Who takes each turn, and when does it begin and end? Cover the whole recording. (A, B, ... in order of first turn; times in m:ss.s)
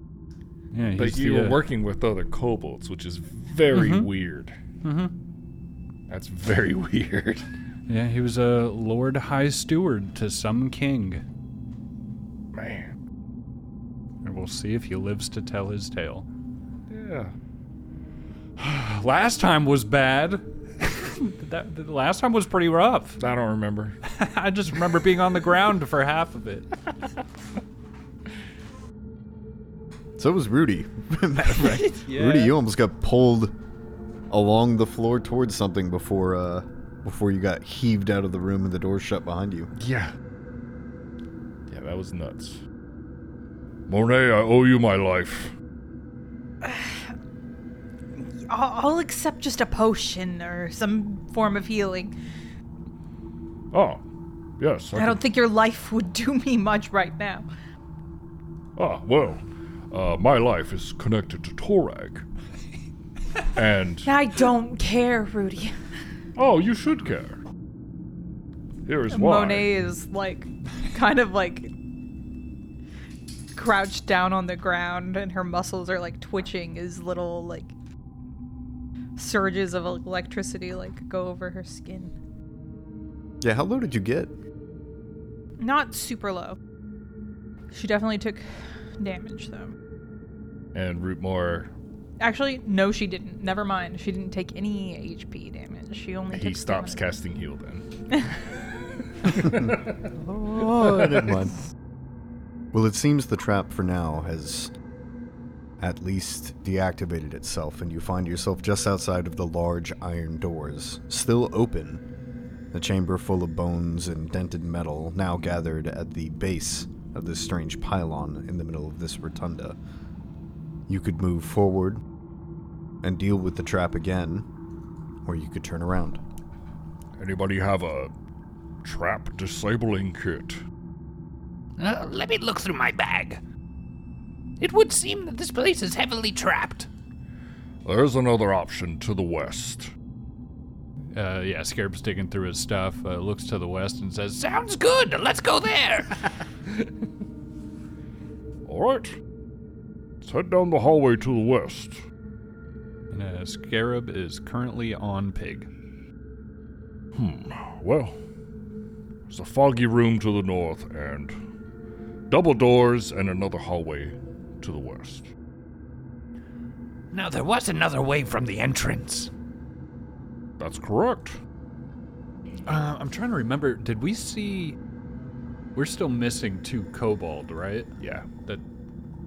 0:00.7-0:01.6 A
0:01.0-0:04.5 B
0:03.7-0:04.1 A
0:04.8-0:05.1 A
0:06.1-0:07.4 B
0:07.9-0:11.2 A
0:12.5-0:12.9 B
0:14.2-0:16.3 A
0:16.9-0:17.3 B
0:18.6-0:23.2 A
0:23.2-0:24.0 B
0:24.0-0:26.7 A
0:30.2-0:33.5 C
0:31.6-0:32.6 A
0:34.3-0:39.7 C
0:39.7-0:40.1 B
0:41.7-0:42.6 B
0:43.9-0:45.5 B
0:46.6-0:47.1 D
0:48.1-0:52.1 D
0:53.7-0:54.0 B
0:54.6-0:55.2 B
0:54.9-0:57.4 D
0:58.8-1:02.2 B
1:03.6-1:04.1 B
1:04.0-1:05.7 D
1:06.4-1:07.4 B
1:08.8-1:09.7 B
1:09.1-1:11.7 D
1:13.5-1:17.7 D
1:19.2-1:22.1 D
1:23.4-1:24.3 C
1:25.6-1:26.6 D
1:27.7-1:28.4 D
1:29.0-1:29.7 D
1:30.7-1:31.7 B
1:32.2-1:37.0 D
1:36.3-1:37.8 B
1:39.3-1:39.7 B
1:40.2-1:41.6 C
1:40.8-1:41.3 B
1:42.7-1:44.7 C
1:45.8-1:52.0 C
1:52.7-1:59.8 C
2:00.9-2:02.0 C
2:03.0-2:04.5 C
2:05.2-2:06.2 C
2:07.2-2:08.1 B
2:08.8-2:10.6 B
2:11.8-2:13.4 E
2:14.6-2:16.9 E
2:17.8-2:19.9 B
2:21.1-2:24.4 A
2:24.4-2:26.1 E
2:28.6-2:29.2 B
2:30.2-2:32.0 B
2:33.1-2:35.7 A
2:37.1-2:38.1 B
2:39.3-2:41.3 B
2:42.3-2:45.3 B
2:47.1-2:49.3 E
2:50.6-2:51.4 B
2:52.6-2:54.8 A
2:55.7-2:58.6 A
2:58.0-2:58.3 B